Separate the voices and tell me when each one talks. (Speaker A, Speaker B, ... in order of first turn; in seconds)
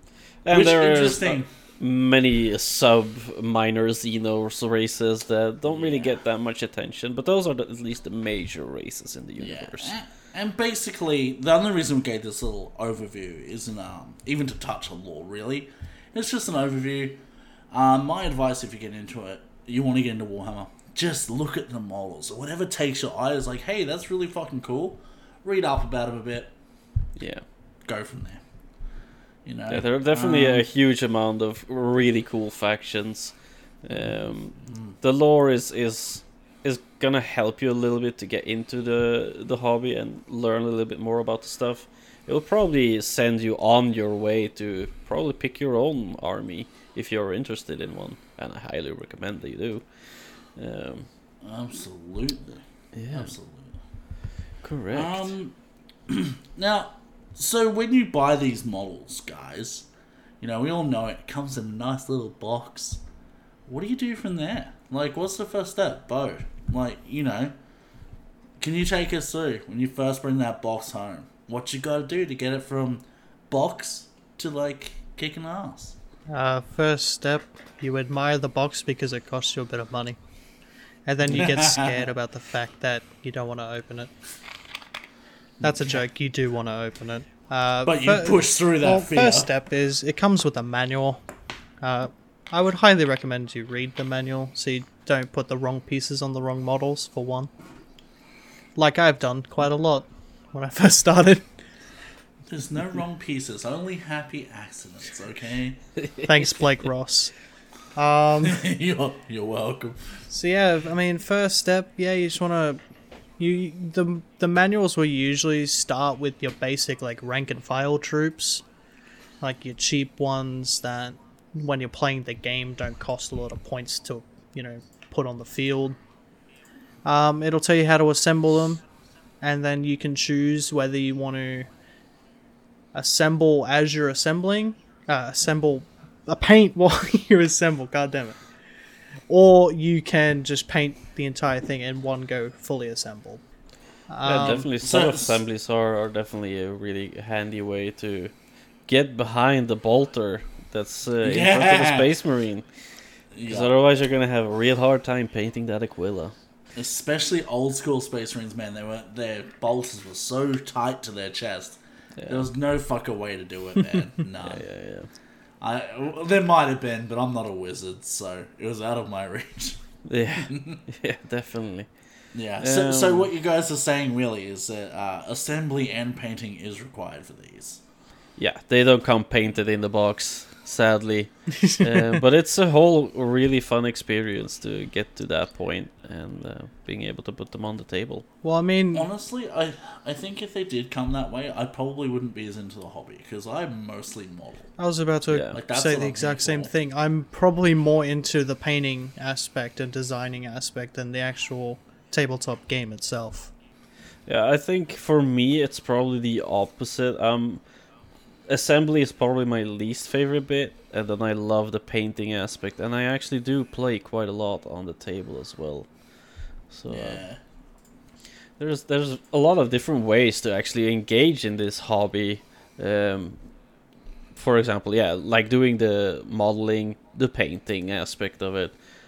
Speaker A: 0.4-10.0, 27.2-27.4, 29.7-51.1, 52.9-53.3, 54.6-55.3, 106.0-106.6, 144.2-148.3, 148.9-152.9, 153.5-156.3, 162.2-162.5, 164.4-165.1, 170.1-171.9, 172.6-173.3, 178.4-188.2, 195.3-195.6, 204.3-207.6, 208.5-215.9, 216.7-217.2, 218.6-223.4, 224.3-228.8
Speaker B: 0.5-1.5, 5.7-6.2, 9.4-17.2, 17.7-26.5, 27.9-28.4, 29.4-30.6, 34.7-34.9, 51.4-52.6, 53.1-53.8, 54.9-55.5, 56.1-59.9, 60.4-63.0, 63.7-67.5, 68.6-76.0, 81.3-82.1, 87.8-89.5, 102.5-105.8, 108.4-110.2, 144.8-145.4, 151.2-152.1, 153.3-153.7, 156.8-161.8, 162.3-164.7, 165.6-169.8, 170.5-170.8, 172.3-177.8, 188.9-194.7, 195.5-196.7, 216.9-217.4
Speaker C: 76.3-80.2, 81.1-84.1, 85.6-91.2, 91.8-97.5, 98.8-101.6, 106.3-107.3, 108.0-108.7, 110.3-112.8, 113.4-118.6, 119.4-126.0, 127.0-128.8, 129.4-131.7, 132.9-138.4, 139.3-143.4, 144.1-144.7, 188.4-189.1, 194.8-203.5